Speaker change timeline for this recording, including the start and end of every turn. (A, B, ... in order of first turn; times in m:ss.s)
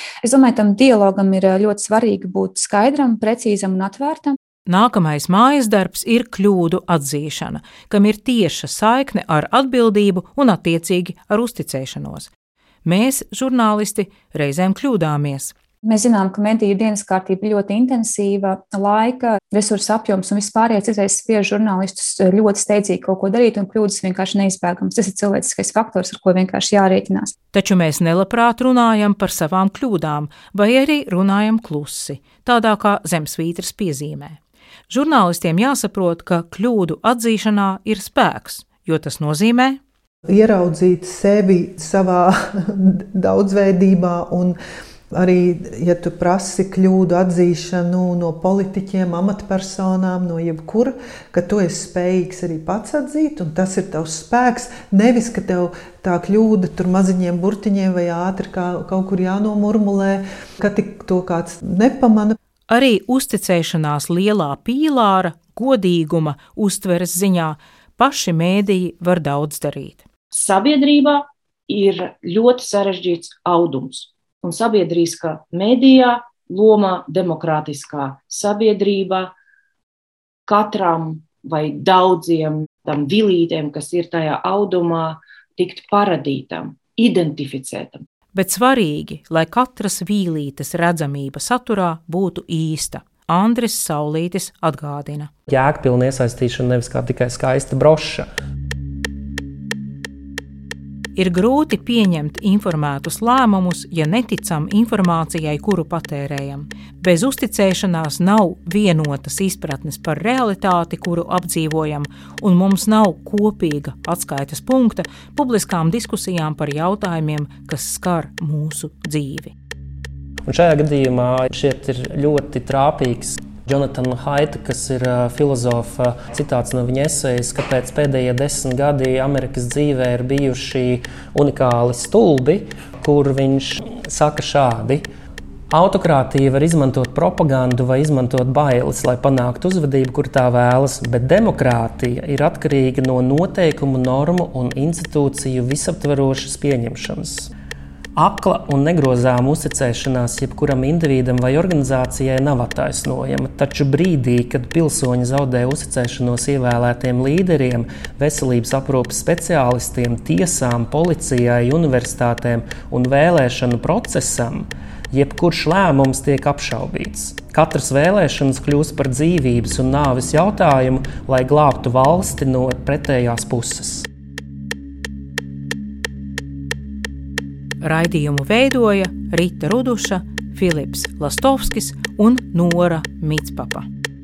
0:00.2-0:04.4 A
0:04.7-0:12.3 B
0:12.8-0:15.5 B
0:15.8-0:27.3 A
0:27.5-0:34.4 B
0:34.9-0:39.8 B
0:40.3-0:44.6 C
0:45.1-1:02.4 C
1:02.7-1:10.0 B
1:10.3-1:19.3 D
1:20.5-1:28.0 D
1:28.3-1:35.3 B
1:35.5-1:38.3 E
1:41.2-1:59.5 B
2:00.4-2:15.1 E
2:15.7-2:27.5 E
2:28.2-2:54.1 E
2:57.8-3:03.9 B